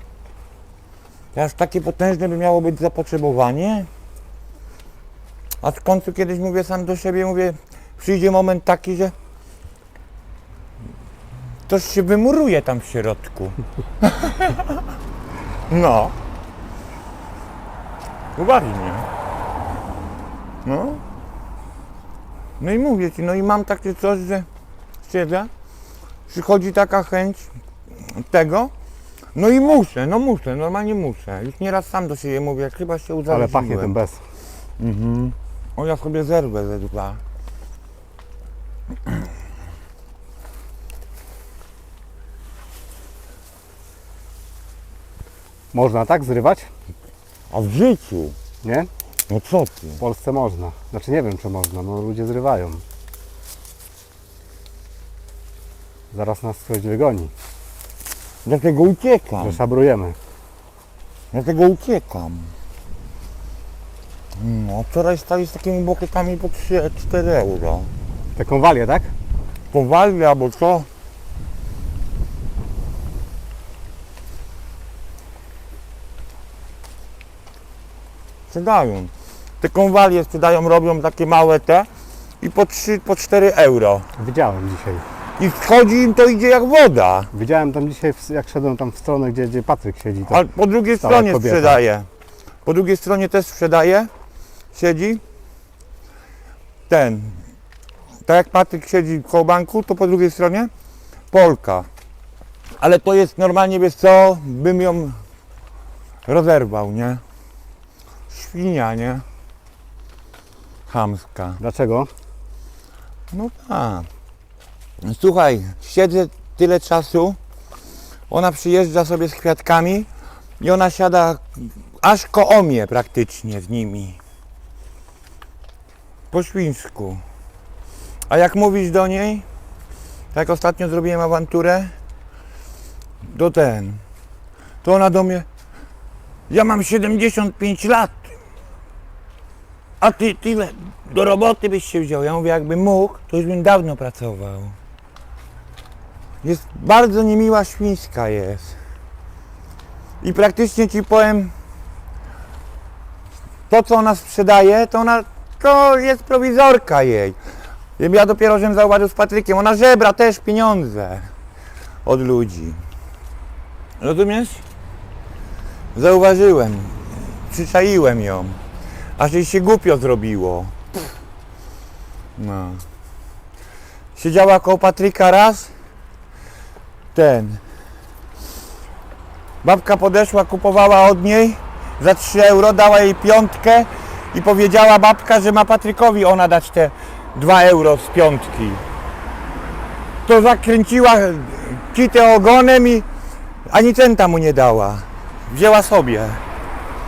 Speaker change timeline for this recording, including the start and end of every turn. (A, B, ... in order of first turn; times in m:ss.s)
0:01.3-0:03.9 A
0:05.6-0:09.1 A
0:11.7-0:14.8 A
0:15.7-0:16.1 A
0:18.4-0:19.1 A
0:20.6-0:21.0 A
0:22.6-0:24.4 A
0:25.0-0:25.5 A
0:26.3-0:28.7 A
0:29.3-0:33.9 A
0:33.3-0:34.2 B
0:34.8-0:37.2 A
0:45.7-0:46.7 B
0:47.5-0:48.3 A
0:48.6-0:48.9 B
0:49.3-0:50.0 A
0:50.0-0:52.8 B
0:56.1-0:57.3 B
0:58.4-0:59.6 A
0:59.4-1:00.2 B
1:01.3-1:02.5 A
1:04.4-1:07.9 A
1:08.4-1:09.1 B
1:09.7-1:10.9 A
1:18.5-1:21.9 A
1:22.4-1:24.0 A
1:24.2-1:25.0 B
1:25.4-1:27.3 A
1:27.3-1:30.4 B
1:30.3-1:32.1 A
1:31.0-1:31.8 B
1:32.6-1:34.1 A
1:34.7-1:35.2 A
1:36.9-1:37.4 A
1:38.3-1:40.7 A
1:41.3-1:41.9 A
1:42.8-1:45.2 A
1:46.2-1:47.2 A
1:48.3-1:49.2 A
1:50.9-1:51.6 A
1:51.6-1:52.1 B
1:53.3-1:54.1 A
1:55.0-1:57.4 A
1:58.3-2:00.1 A
2:00.6-2:04.2 A
2:06.3-2:07.2 A
2:08.3-2:09.4 A
2:10.3-2:11.9 A
2:13.2-2:14.0 A
2:14.8-2:15.4 A
2:16.5-2:18.3 A
2:20.0-2:24.8 A
2:26.4-2:28.8 A
2:30.2-2:31.5 A
2:33.7-2:37.4 A
2:38.0-2:41.3 A
2:42.0-2:42.8 A
2:44.0-2:44.6 A
2:45.9-2:48.6 A
2:49.2-2:50.8 A
2:52.4-2:52.8 A
2:54.2-2:55.7 A
2:57.1-2:57.6 A
2:59.6-3:08.8 A
3:10.2-3:13.0 A
3:13.6-3:16.4 A